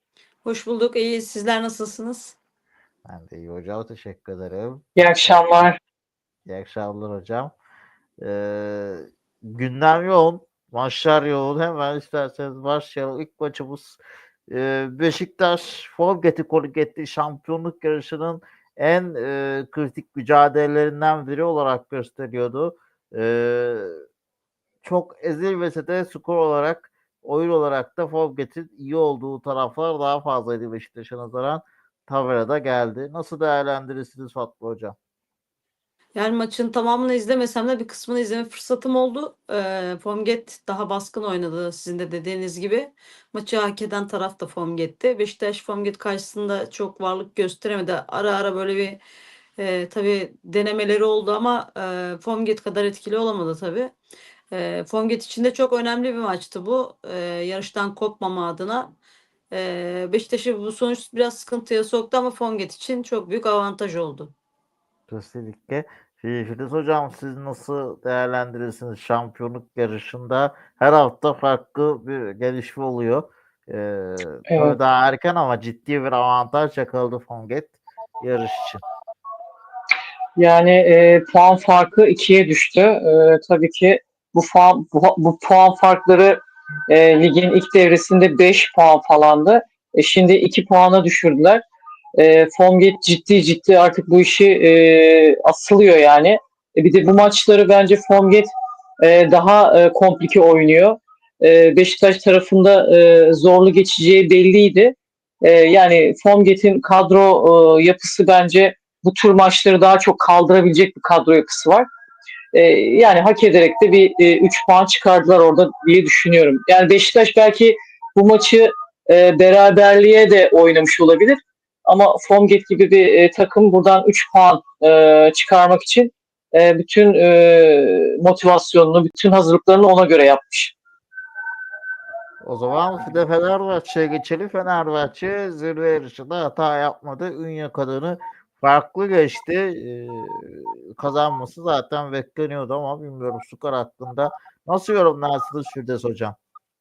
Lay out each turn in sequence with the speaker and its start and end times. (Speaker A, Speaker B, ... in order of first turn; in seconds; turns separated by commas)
Speaker A: 0.4-2.4, Speaker B: 3.0-5.4, Speaker C: 5.0-5.8, Speaker B: 6.5-7.5, Speaker B: 8.2-14.0, Speaker B: 14.5-24.0, Speaker B: 24.8-35.0, Speaker A: 36.1-49.0, Speaker A: 49.6-53.9, Speaker A: 54.5-58.9, Speaker A: 59.5-64.3, Speaker B: 65.1-78.8, Speaker C: 74.5-74.8, Speaker C: 80.4-91.6, Speaker C: 92.2-98.5, Speaker C: 99.0-111.9, Speaker C: 112.5-130.7, Speaker B: 132.4-146.3